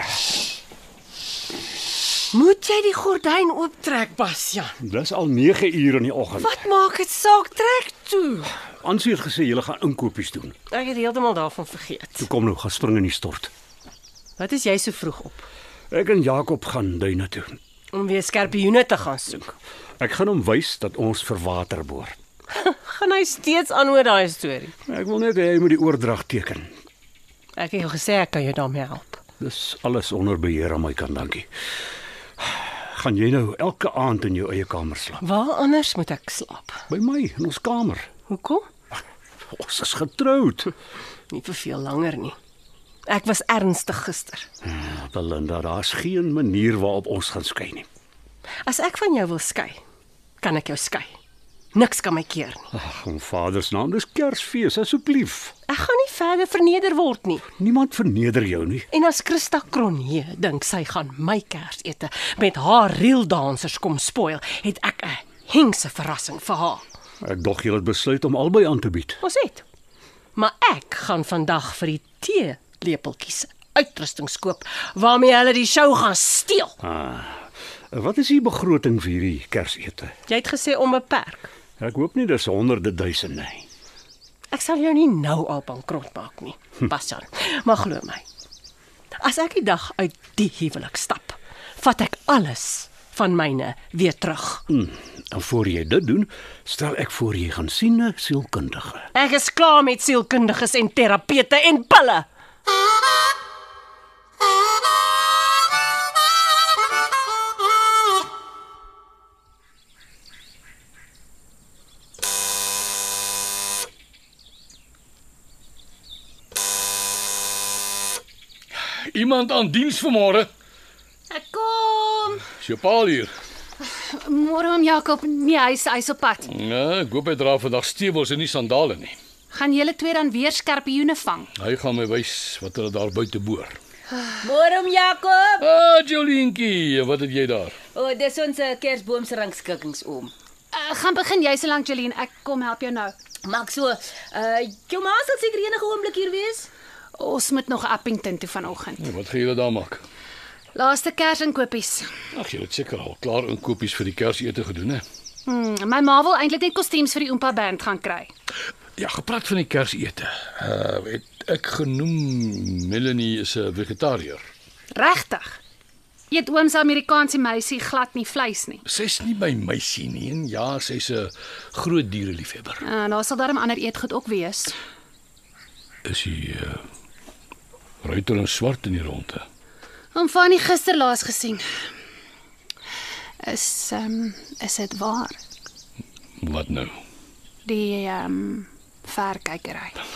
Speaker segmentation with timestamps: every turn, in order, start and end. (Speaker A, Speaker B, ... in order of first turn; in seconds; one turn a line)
Speaker A: 2.3-4.8
Speaker B: 4.8-6.6
Speaker A: 6.4-8.5
Speaker B: 8.8-10.6
Speaker A: 10.7-12.3
Speaker B: 12.2-13.5
Speaker A: 14.4-15.5
Speaker B: 15.9-17.6
Speaker A: 17.9-19.5
Speaker B: 20.0-22.2
Speaker A: 22.5-24.7
Speaker B: 24.9-26.7
Speaker A: 27.6-29.2
Speaker B: 29.4-31.5
Speaker B: 32.4-35.2
Speaker A: 35.2-36.8
Speaker B: 36.9-38.1
Speaker A: 38.3-38.7
Speaker B: 39.5-40.7
Speaker A: 41.3-42.4
Speaker A: 43.1-44.5
Speaker B: 44.6-47.9
Speaker A: 48.6-49.8
Speaker A: 50.4-51.2
Speaker A: 51.7-52.7
Speaker B: 52.7-55.5
Speaker A: 55.7-57.4
Speaker B: 57.6-58.9
Speaker A: 58.9-66.8
Speaker B: 67.2-69.2
Speaker A: 69.2-69.6
Speaker A: 70.3-76.8
Speaker B: 76.8-80.1
Speaker A: 80.3-81.5
Speaker B: 81.8-83.7
Speaker A: 84.5-88.2
Speaker A: 89.2-94.6
Speaker B: 94.7-99.1
Speaker A: 99.1-102.3
Speaker C: 119.1-120.5
Speaker D: 121.3-122.5
Speaker C: 122.6-123.3
Speaker D: 123.8-126.5
Speaker C: 126.5-129.2
Speaker D: 129.5-131.5
Speaker C: 131.6-133.8
Speaker E: 134.4-135.7
Speaker C: 135.6-137.8
Speaker E: 137.9-140.3
Speaker D: 140.7-143.1
Speaker E: 143.4-146.7
Speaker D: 147.2-149.1
Speaker C: 149.0-150.0
Speaker D: 150.8-152.1
Speaker C: 152.3-155.0
Speaker D: 155.5-158.3
Speaker C: 159.0-164.4
Speaker D: 165.0-165.6
Speaker D: 166.3-168.8
Speaker C: 168.9-172.8
Speaker D: 172.8-174.7
Speaker C: 176.1-176.8
Speaker C: 178.0-179.4
Speaker D: 180.2-181.7
Speaker D: 183.4-185.4
Speaker C: 186.4-186.9
Speaker D: 187.7-190.0